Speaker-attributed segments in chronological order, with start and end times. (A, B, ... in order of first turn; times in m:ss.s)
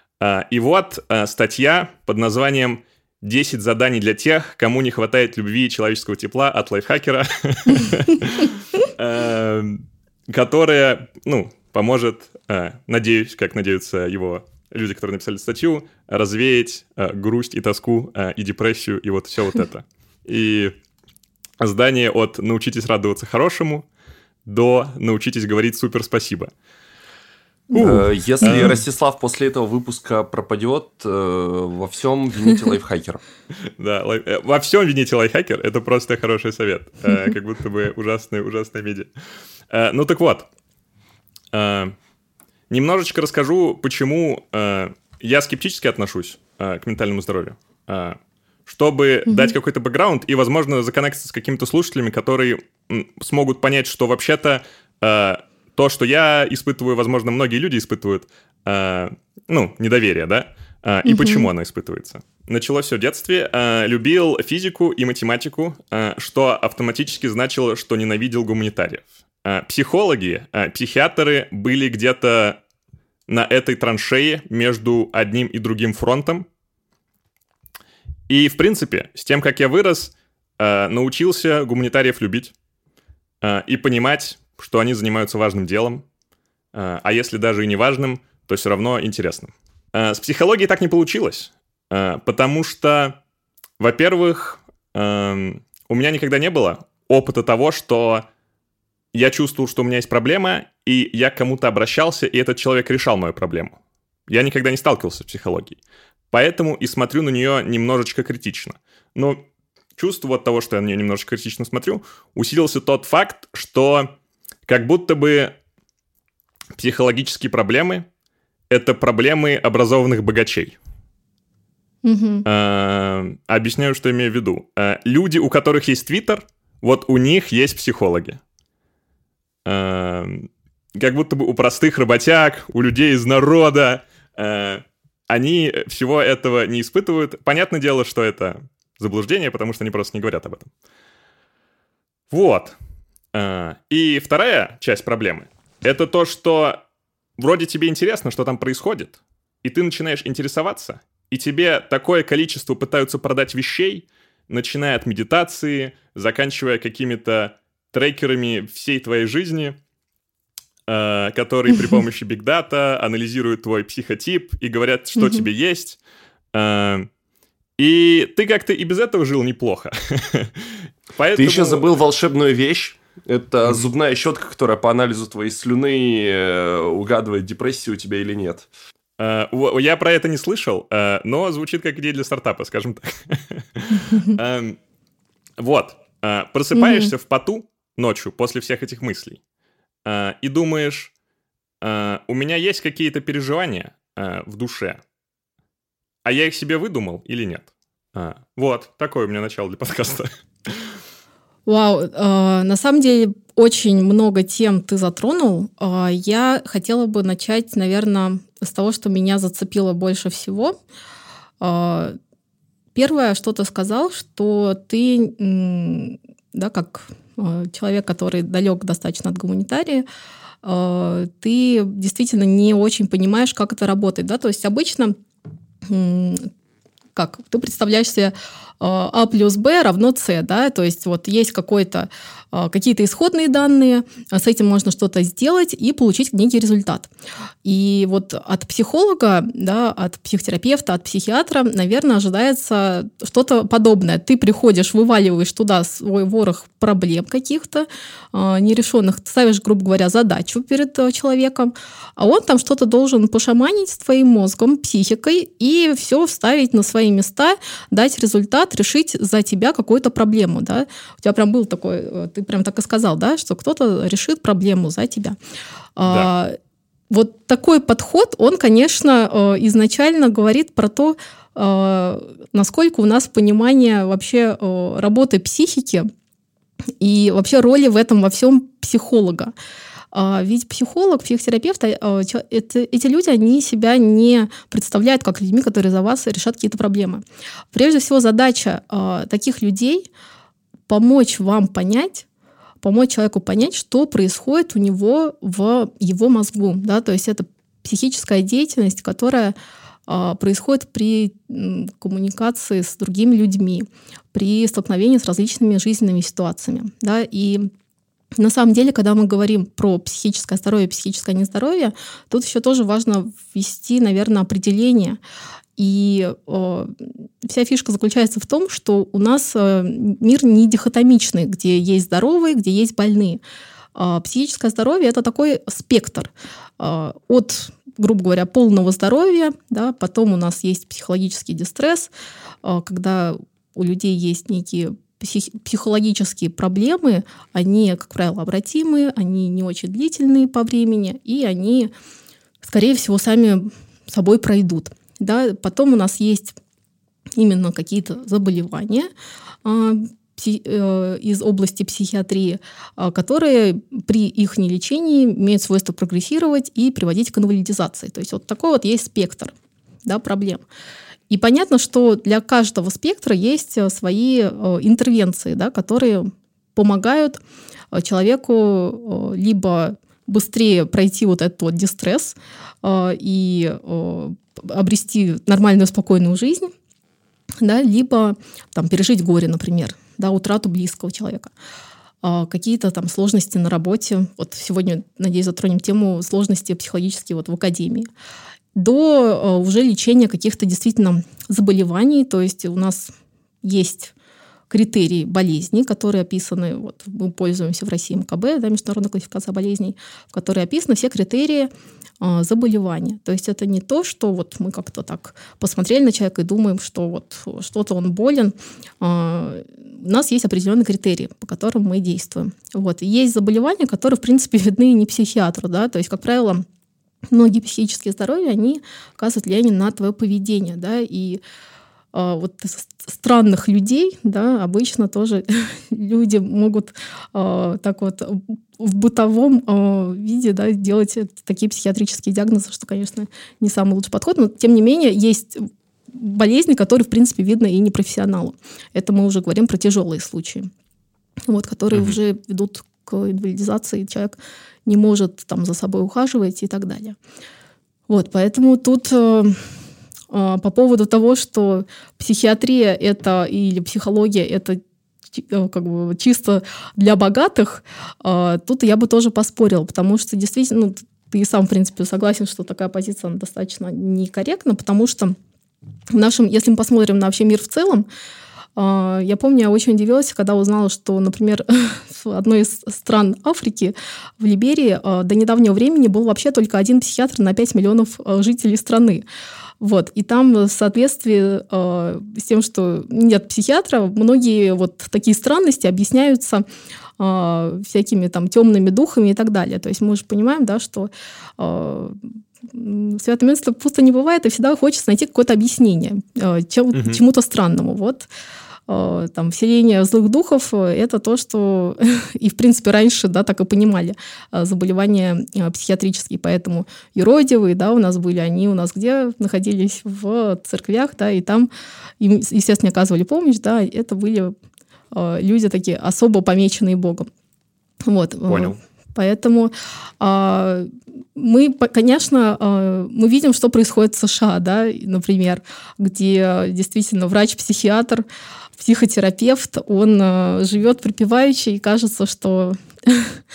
0:00.2-0:20.7 A
0:21.6-0:23.8 A
0:24.4-0:26.5 A
0:27.7-0:28.8 A
0:27.8-0:33.2 B
0:33.6-0:39.1 A
0:39.7-0:40.4 A
0:41.5-0:41.9 A
0:42.7-1:12.6 A
0:49.2-0:49.5 C
1:01.0-1:01.5 C
1:13.3-1:16.4 A
1:18.3-1:22.5 A
1:23.4-1:26.0 A
1:26.7-1:33.2 A
1:33.8-1:38.2 A
1:39.1-1:43.7 A
1:44.3-1:45.8 A
1:46.3-1:49.4 A
1:50.0-1:54.1 A
1:54.7-1:55.5 A
1:56.8-1:58.0 A
1:58.7-2:00.8 A
2:02.0-2:02.4 C
2:02.4-2:08.4 A
2:09.6-2:20.7 A
2:22.3-2:22.8 A
2:23.3-2:26.8 A
2:27.4-2:39.8 A
2:40.9-2:46.0 A
2:45.2-2:45.5 C
2:46.5-2:47.1 A
2:47.8-2:51.8 A
2:51.4-2:58.7 B
2:59.2-3:04.8 A
3:05.6-3:09.4 A
3:06.7-3:07.1 C
3:10.0-3:11.1 A
3:11.8-3:15.0 A
3:16.2-3:20.9 A
3:21.6-3:30.8 C
3:31.6-3:32.2 C
3:32.9-3:40.0 C
3:40.6-3:45.1 C
3:45.8-3:46.5 C
3:47.1-3:57.1 C
3:57.6-4:25.4 C
4:26.0-4:26.6 C
4:26.0-4:26.3 A
4:27.1-4:36.1 C
4:37.0-4:39.5 C
4:40.1-4:50.1 C
4:50.9-4:52.2 C
4:52.8-4:59.5 C
5:00.1-5:07.7 C
5:08.3-5:15.2 C
5:15.8-5:23.4 C
5:23.9-5:32.1 C
5:32.6-5:41.9 C
5:42.6-5:46.6 C
5:47.4-5:49.1 C
5:49.6-5:59.5 C
6:00.0-6:00.6 C
6:01.3-6:07.4 C
6:07.9-6:16.7 C
6:17.6-6:21.5 C
6:22.2-6:28.1 C
6:28.7-6:34.1 C
6:34.7-6:41.7 C
6:42.2-6:56.6 C
6:57.3-7:01.4 C
7:02.1-7:20.7 C
7:21.4-7:27.2 C
7:28.1-7:29.7 C
7:30.3-7:34.8 C
7:35.3-7:45.3 C
7:46.1-7:48.1 C
7:48.8-7:59.2 C
7:59.8-8:06.6 C
8:07.2-8:18.3 C
8:16.9-8:17.2 A
8:18.9-8:34.5 C
8:35.1-8:37.3 C
8:38.0-8:48.2 C
8:38.5-8:38.8 A
8:48.8-8:53.4 C